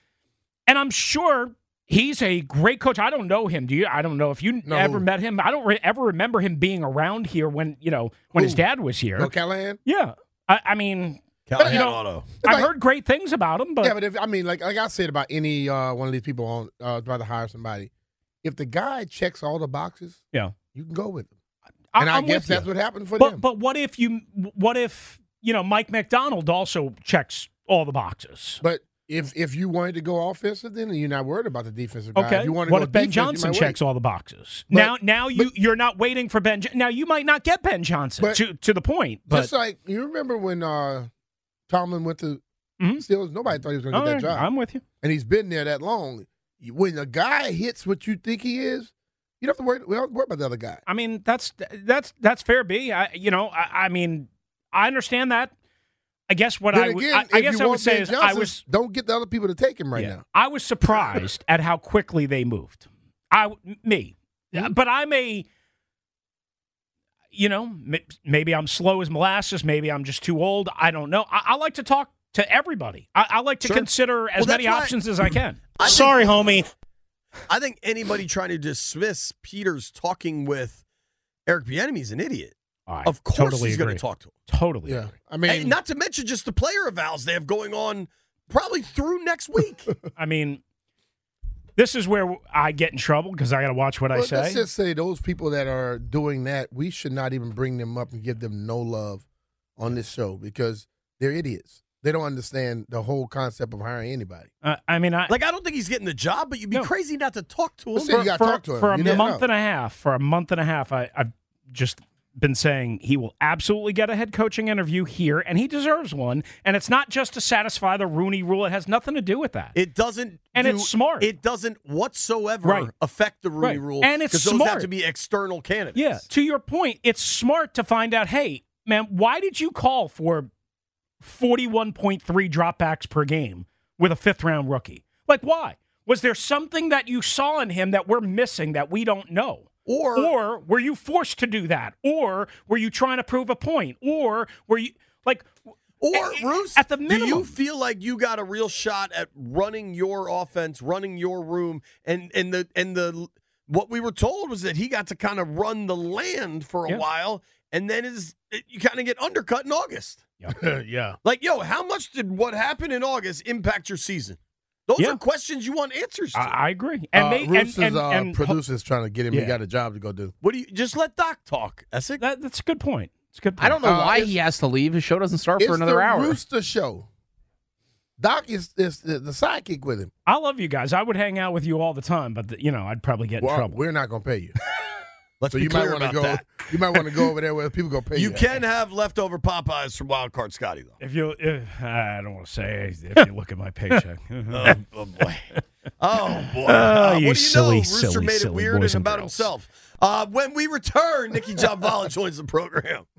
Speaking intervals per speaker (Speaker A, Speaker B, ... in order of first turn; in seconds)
Speaker A: 0.7-9.3, 9.8-14.0, 21.9-22.7, 23.2-28.6, 32.1-39.5, 42.8-43.1, 43.9-44.8, 50.9-55.5, 56.3-58.6, 59.9-65.5, 67.3-76.7, 82.9-85.1, 90.2-90.6, 91.8-94.6, 104.6-105.3, 108.0-119.8, 120.5-121.3, 122.6-122.9, 123.6-124.9, 126.0-130.5, 131.2-147.5, 166.3-168.6, 169.3-169.6, 172.2-173.8, 180.3-183.8, 191.0-195.6, 196.4-199.5
Speaker B: 4.7-5.0, 8.3-8.6, 9.2-9.8, 11.6-11.9, 12.4-12.7, 13.8-17.9, 18.4-20.2, 20.7-21.3, 22.0-23.4, 28.6-33.8, 34.7-35.5, 39.3-41.1, 41.7-42.4, 43.0-44.5, 45.0-50.8, 56.7-60.2, 84.8-85.8, 94.1-99.2, 99.8-104.5, 108.0-109.5, 160.5-161.2, 167.1-170.3, 173.8-174.4, 175.6-177.1, 178.2-180.1, 183.4-184.6, 185.5-188.5
Speaker C: 11.5-12.3, 73.6-75.0, 75.8-76.6, 77.5-80.8, 81.5-84.3, 85.5-90.0, 105.3-108.3, 119.7-126.2, 139.9-140.3, 146.0-160.2, 161.2-166.6, 170.4-172.2, 185.4-187.1, 188.1-190.9, 194.5-203.1
Speaker D: 173.6-176.4